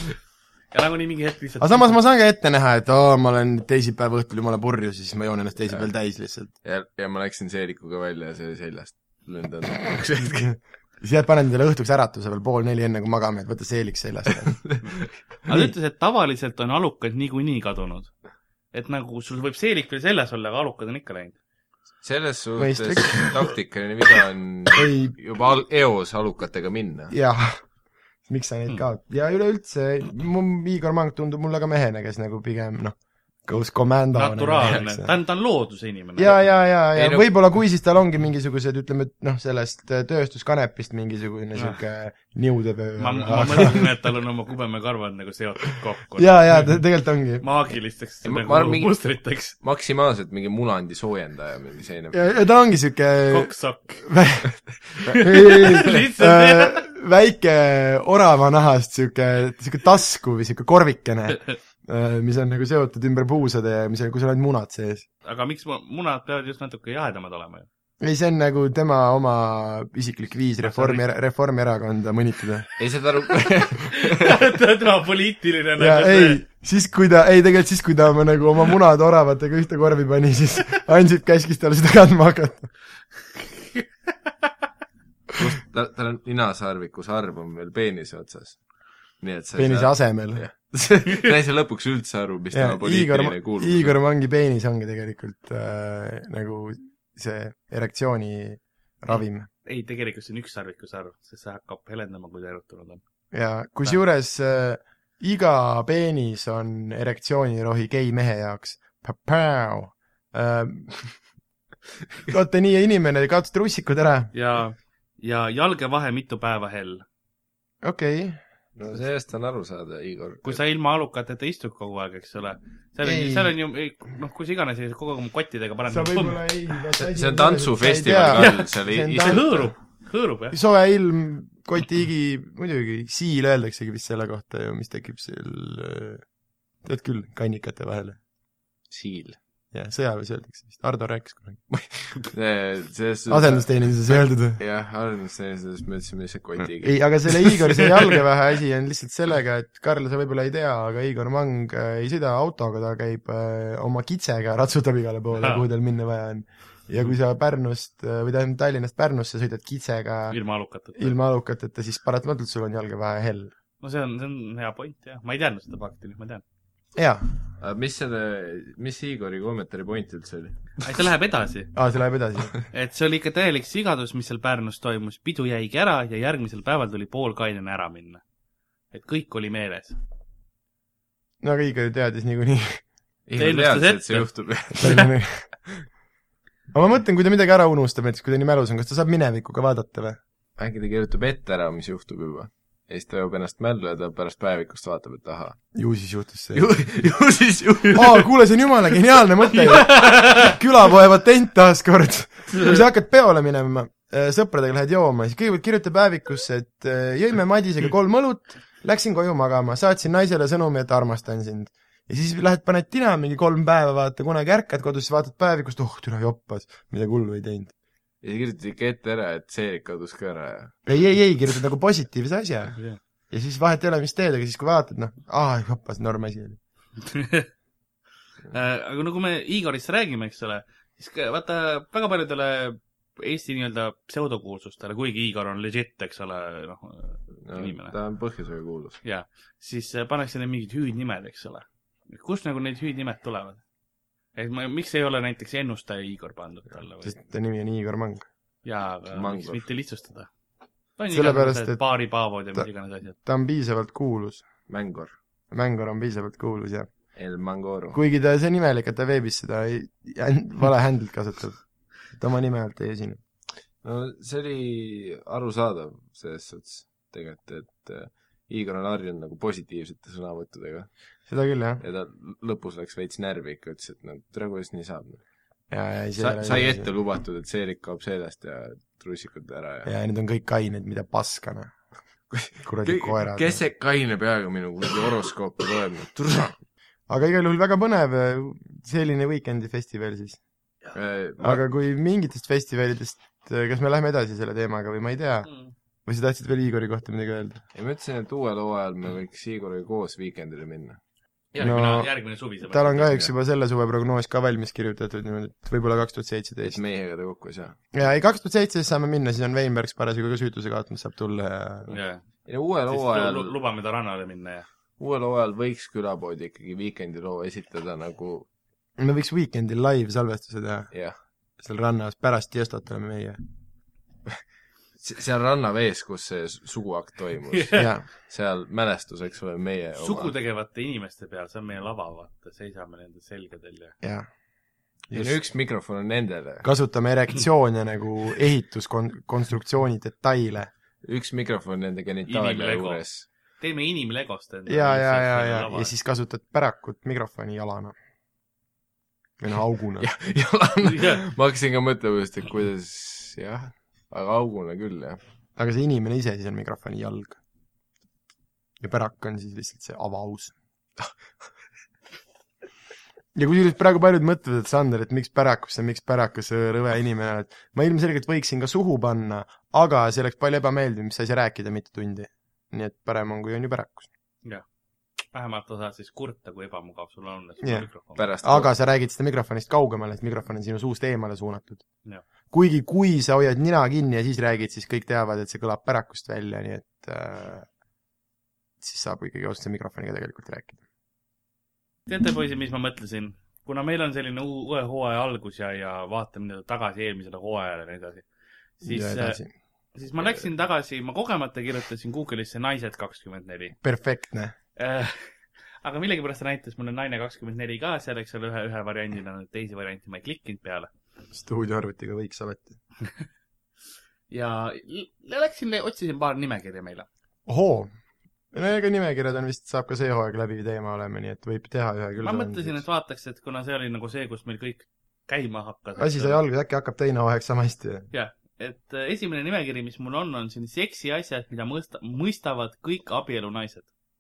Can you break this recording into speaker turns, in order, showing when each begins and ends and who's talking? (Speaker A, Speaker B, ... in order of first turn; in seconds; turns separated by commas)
Speaker A: 0.7-1.9, Speaker B: 1.6-6.5, Speaker C: 6.6-10.5, Speaker B: 10.4-14.6, Speaker A: 15.4-18.1, Speaker B: 15.5-15.7, Speaker A: 18.7-21.4, Speaker C: 22.0-27.1, Speaker B: 22.6-23.5, Speaker B: 24.8-25.1, Speaker B: 27.1-27.6, Speaker B: 28.3-35.1, Speaker A: 34.1-36.4, Speaker B: 36.2-44.0, Speaker C: 36.9-37.5, Speaker A: 43.0-46.8, Speaker B: 46.2-47.4, Speaker A: 47.4-49.5, Speaker C: 48.2-52.2, Speaker B: 52.1-65.1, Speaker A: 53.3-54.0, Speaker A: 55.2-56.8, Speaker A: 65.2-67.7, Speaker B: 68.0-72.7, Speaker A: 70.6-71.0, Speaker C: 72.8-74.4, Speaker A: 73.9-76.4, Speaker B: 75.8-82.7, Speaker C: 85.3-88.6, Speaker C: 89.2-93.9, Speaker B: 89.6-90.4, Speaker B: 92.5-99.5, Speaker A: 99.6-103.0, Speaker B: 103.3-111.1, Speaker B: 112.3-114.3, Speaker A: 114.3-117.0, Speaker B: 117.8-118.4, Speaker C: 118.8-120.6, Speaker A: 120.4-126.4, Speaker B: 123.0-123.5, Speaker B: 125.9-129.6, Speaker C: 127.0-129.7, Speaker A: 128.3-130.6, Speaker B: 130.5-136.2, Speaker B: 136.8-138.2, Speaker C: 138.9-139.4, Speaker B: 139.7-141.7, Speaker C: 141.7-147.8, Speaker B: 143.3-144.6, Speaker B: 146.6-160.4, Speaker A: 155.4-155.6, Speaker A: 160.3-161.1, Speaker B: 160.9-163.5, Speaker A: 163.8-166.4, Speaker B: 166.9-167.3, Speaker C: 167.6-170.8, Speaker A: 170.8-171.7, Speaker B: 171.7-172.6, Speaker A: 172.7-178.2, Speaker A: 178.9-180.0, Speaker B: 181.4-182.8, Speaker C: 183.3-185.1, Speaker A: 183.4-184.3, Speaker B: 184.8-185.5, Speaker B: 186.7-190.2, Speaker C: 190.6-195.6, Speaker B: 195.7-196.7, Speaker C: 196.5-198.3, Speaker B: 197.9-217.7, Speaker A: 199.5-200.6, Speaker C: 218.2-220.8, Speaker B: 220.9-226.6, Speaker A: 227.1-227.5, Speaker A: 228.5-237.9, Speaker C: 237.4-239.0, Speaker A: 239.0-243.6, Speaker A: 244.3-247.2, Speaker B: 247.0-248.3, Speaker A: 248.6-250.3, Speaker C: 249.1-249.6, Speaker A: 251.0-253.2, Speaker B: 251.1-251.8, Speaker B: 253.2-254.4, Speaker C: 254.7-255.2, Speaker B: 255.5-256.9, Speaker C: 257.1-258.0, Speaker B: 257.9-263.2, Speaker C: 263.8-270.9, Speaker B: 271.3-271.8, Speaker C: 271.8-275.2, Speaker B: 275.7-276.9, Speaker C: 276.2-279.9, Speaker B: 279.9-281.7, Speaker C: 282.3-286.6, Speaker B: 282.6-283.6, Speaker B: 287.1-290.4, Speaker C: 290.9-291.6, Speaker B: 291.4-295.5, Speaker A: 295.4-295.7, Speaker B: 296.1-297.6, Speaker C: 297.7-301.0, Speaker A: 301.6-303.2, Speaker B: 301.6-306.8, Speaker C: 306.6-307.8, Speaker B: 307.9-311.9, Speaker A: 311.9-312.3, Speaker C: 312.4-313.5, Speaker A: 312.9-314.7, Speaker C: 315.0-318.5, Speaker B: 319.0-320.9, Speaker C: 320.9-321.2, Speaker B: 321.6-323.4, Speaker C: 325.0-330.3, Speaker A: 327.5-327.9, Speaker B: 327.8-328.1, Speaker A: 330.0-333.9, Speaker B: 334.0-334.3, Speaker B: 335.1-335.4, Speaker C: 335.1-336.7, Speaker B: 336.6-340.7, Speaker C: 341.0-343.3, Speaker A: 342.3-343.0, Speaker A: 343.6-345.9, Speaker B: 344.7-347.9, Speaker B: 349.4-350.1, Speaker C: 350.0-355.2, Speaker A: 350.8-351.2, Speaker B: 355.6-357.4, Speaker B: 358.8-360.6, Speaker B: 363.4-374.1, Speaker A: 375.3-378.2, Speaker B: 377.6-377.9, Speaker C: 378.1-378.7, Speaker B: 378.4-381.9, Speaker B: 382.5-387.7, Speaker B: 388.8-390.8, Speaker A: 392.1-398.2, Speaker A: 398.8-399.4, Speaker B: 398.8-399.5, Speaker A: 399.9-403.8, Speaker B: 403.8-404.5, Speaker A: 404.8-405.3, Speaker A: 405.8-410.9, Speaker B: 411.3-412.8, Speaker A: 414.3-417.1, Speaker B: 417.4-417.9, Speaker B: 418.5-422.8, Speaker A: 422.2-426.4, Speaker B: 425.9-428.1, Speaker A: 428.1-433.9